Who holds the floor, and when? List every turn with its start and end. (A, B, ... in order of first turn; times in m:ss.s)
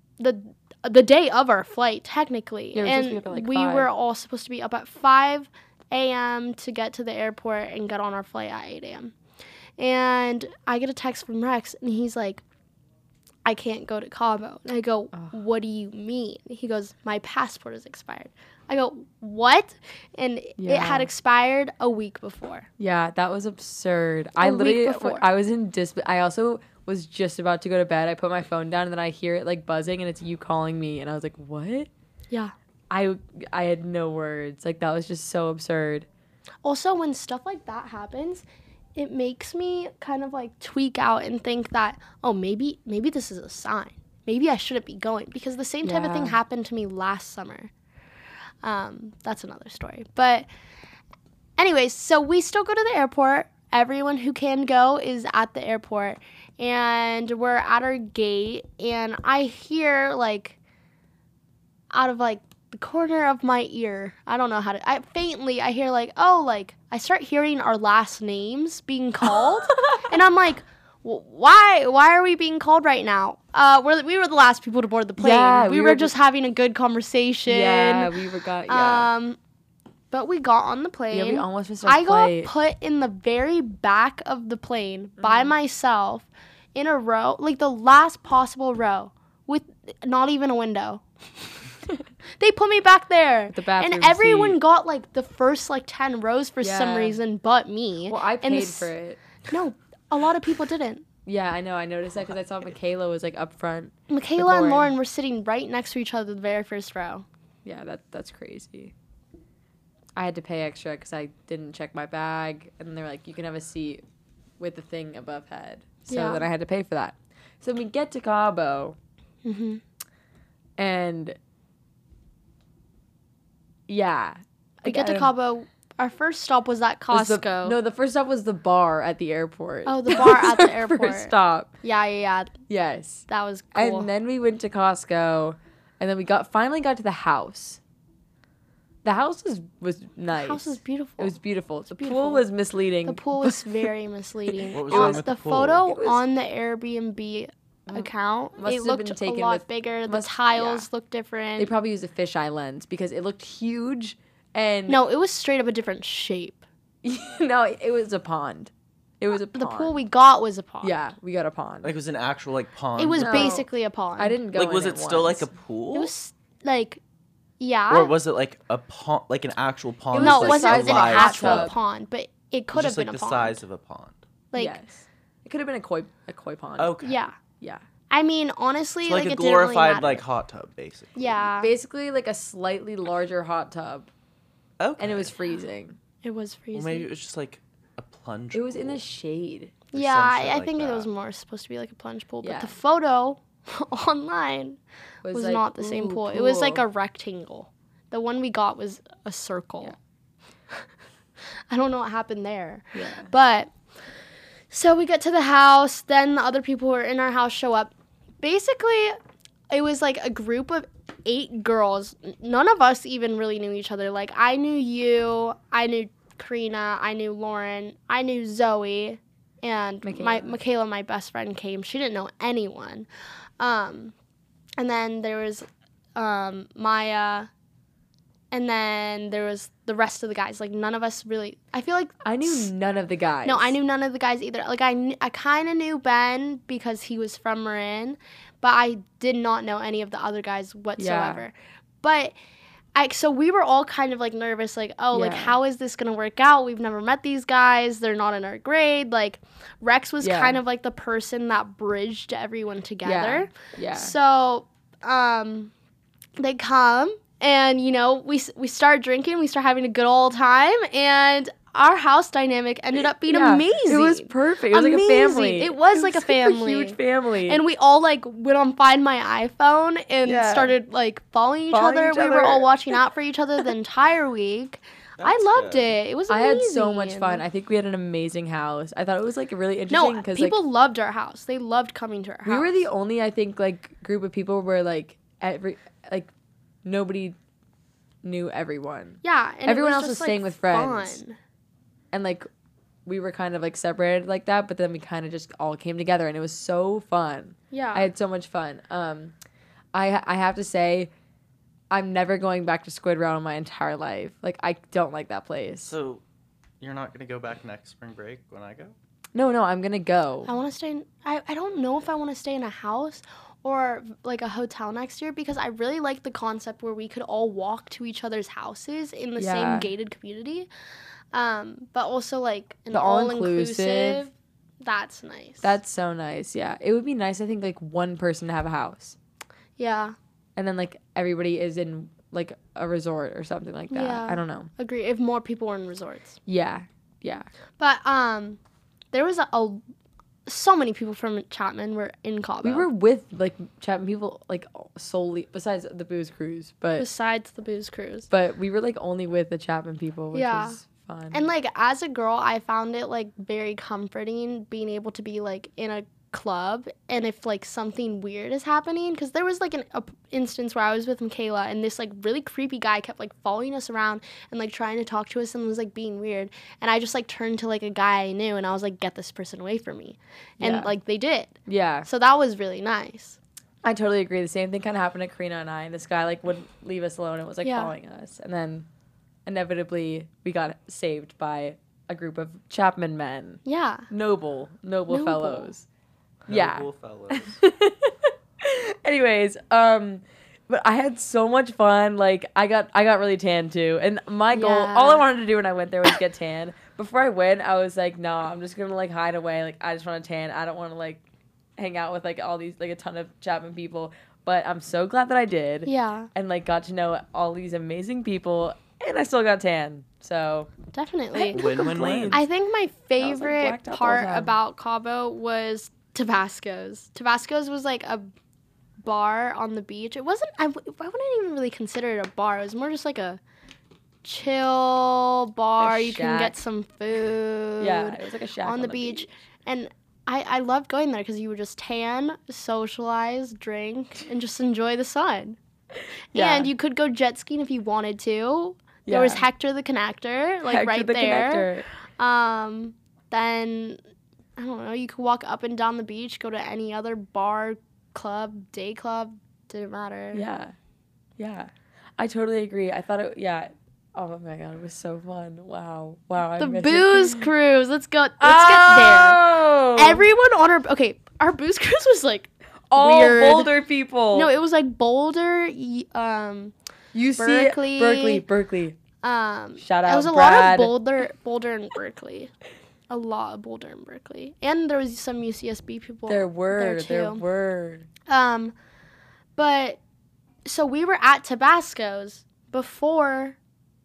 0:00.2-0:09.1 A
0:02.7-0:03.9 B
0:09.8-0:12.4 A
0:13.4-0:22.7 A
0:20.6-0:21.1 B
0:22.8-0:31.9 B
0:24.4-0:25.2 A
0:32.9-0:36.1 B
0:36.6-0:38.4 A
0:39.0-0:47.7 A
0:45.8-0:46.4 B
0:48.6-0:50.5 A
0:51.6-1:00.6 A
1:01.9-1:18.2 A
1:15.2-1:16.1 B
1:17.5-1:19.1 B
1:18.7-1:19.4 A
1:20.1-1:31.6 A
1:21.1-1:22.5 B
1:25.2-1:25.6 B
1:32.4-1:38.9 A
1:33.5-1:34.6 B
1:36.6-1:37.2 B
1:38.1-1:39.2 B
1:39.4-1:41.0 A
1:41.3-1:44.9 B
1:44.1-1:47.2 A
1:47.6-1:48.9 B
1:50.2-1:54.0 B
1:54.6-1:59.0 B
1:56.1-1:56.5 A
1:59.4-1:59.8 A
2:00.8-2:01.4 B
2:03.9-2:05.3 B
2:04.8-2:07.8 A
2:07.1-2:11.7 B
2:09.9-2:12.6 A
2:12.7-2:17.8 B
2:13.3-2:14.1 A
2:19.0-2:23.7 B
2:20.3-2:21.4 A
2:22.0-2:22.4 A
2:23.0-2:31.7 A
2:24.5-2:25.2 B
2:24.7-2:25.8 C
2:25.9-2:26.2 B
2:27.9-2:30.9 B
2:31.6-2:35.0 B
2:34.9-2:36.6 A
2:37.0-2:40.0 B
2:39.5-2:41.0 A
2:40.8-2:41.9 B
2:41.8-2:43.6 C
2:43.0-2:44.4 A
2:43.2-2:43.7 B
2:44.2-2:45.5 B
2:44.5-2:46.1 C
2:45.9-2:47.0 A
2:47.6-2:48.1 A
2:47.9-2:51.7 C
2:50.1-2:51.8 B
2:50.2-2:53.6 A
2:52.7-2:54.2 C
2:54.5-2:54.8 A
2:54.6-2:57.0 B
2:56.8-2:57.2 C
2:57.0-2:57.4 A
2:58.1-3:00.2 A
2:59.0-3:01.4 C
3:01.2-3:01.7 A
3:01.6-3:04.1 B
3:04.8-3:05.3 C
3:05.0-3:06.0 B
3:06.2-3:07.1 A
3:06.7-3:09.0 C
3:08.5-3:09.8 B
3:09.9-3:11.1 C
3:09.9-3:14.8 A
3:12.4-3:12.8 B
3:15.2-3:16.8 B
3:15.3-3:20.0 A
3:21.7-3:23.7 A
3:22.9-3:23.3 B
3:24.7-3:29.2 A
3:29.7-3:43.1 A
3:40.0-3:40.6 B
3:43.6-3:44.1 A
3:44.8-3:47.5 A
3:48.5-3:52.7 A
3:52.2-3:53.8 B
3:53.4-4:02.4 A
4:01.0-4:01.4 B
4:03.0-4:15.7 A
4:05.1-4:05.6 B
4:10.2-4:10.6 B
4:13.0-4:14.2 B
4:16.4-4:37.4 A
4:23.3-4:27.6 B
4:30.2-4:30.8 B
4:31.7-4:33.0 B
4:35.2-4:36.0 C
4:36.3-4:40.6 B
4:39.9-4:42.8 A
4:42.4-4:46.3 B
4:46.8-4:47.4 B
4:48.2-4:51.2 B
4:49.2-4:51.4 A
4:52.1-4:52.5 B
4:53.1-4:59.4 B
4:57.7-4:58.1 A
4:59.9-5:01.1 B
5:01.9-5:05.9 B
5:05.8-5:06.2 C
5:06.8-5:09.0 C
5:09.3-5:10.5 B
5:10.5-5:20.7 A
5:19.4-5:19.9 B
5:21.3-5:25.8 A
5:22.9-5:24.3 B
5:25.6-5:29.2 B
5:29.8-5:30.2 A
5:30.6-5:34.7 B
5:33.9-5:36.4 A
5:36.5-5:37.5 B
5:37.8-5:38.6 A
5:39.1-5:39.8 A
5:40.5-5:42.9 A
5:42.6-5:47.1 B
5:47.0-5:48.3 A
5:48.3-5:51.5 B
5:50.3-5:50.8 A
5:51.3-6:13.4 A
6:10.6-6:11.0 B
6:11.7-6:12.1 B
6:13.8-6:18.9 B
6:17.6-6:17.9 A
6:19.5-6:25.9 B
6:23.7-6:24.1 A
6:25.1-6:25.7 A
6:26.5-6:27.6 C
6:26.5-6:41.2 B
6:34.5-6:35.2 A
6:41.8-6:50.7 B
6:45.9-6:46.3 A
6:50.9-6:58.3 A
6:51.3-6:52.5 B
6:51.5-6:52.4 C
6:53.2-6:54.6 B
6:59.0-7:03.4 A
7:04.2-7:15.6 A
7:05.8-7:06.6 B
7:07.8-7:09.3 B
7:16.0-7:16.7 B
7:16.3-7:24.0 A
7:19.1-7:19.5 B
7:20.7-7:21.9 B
7:24.6-7:30.4 A
7:30.3-7:30.8 B
7:31.4-7:37.5 B
7:36.6-7:43.7 A
7:38.4-7:40.3 B
7:42.9-7:44.5 B
7:44.3-7:46.7 A
7:47.1-7:49.0 B
7:47.4-7:48.4 A
7:49.2-7:52.5 A
7:49.8-7:51.0 B
7:53.1-7:57.4 A
7:56.3-7:58.1 B
7:58.3-7:58.7 A
7:59.6-8:00.0 A
8:00.6-8:03.6 A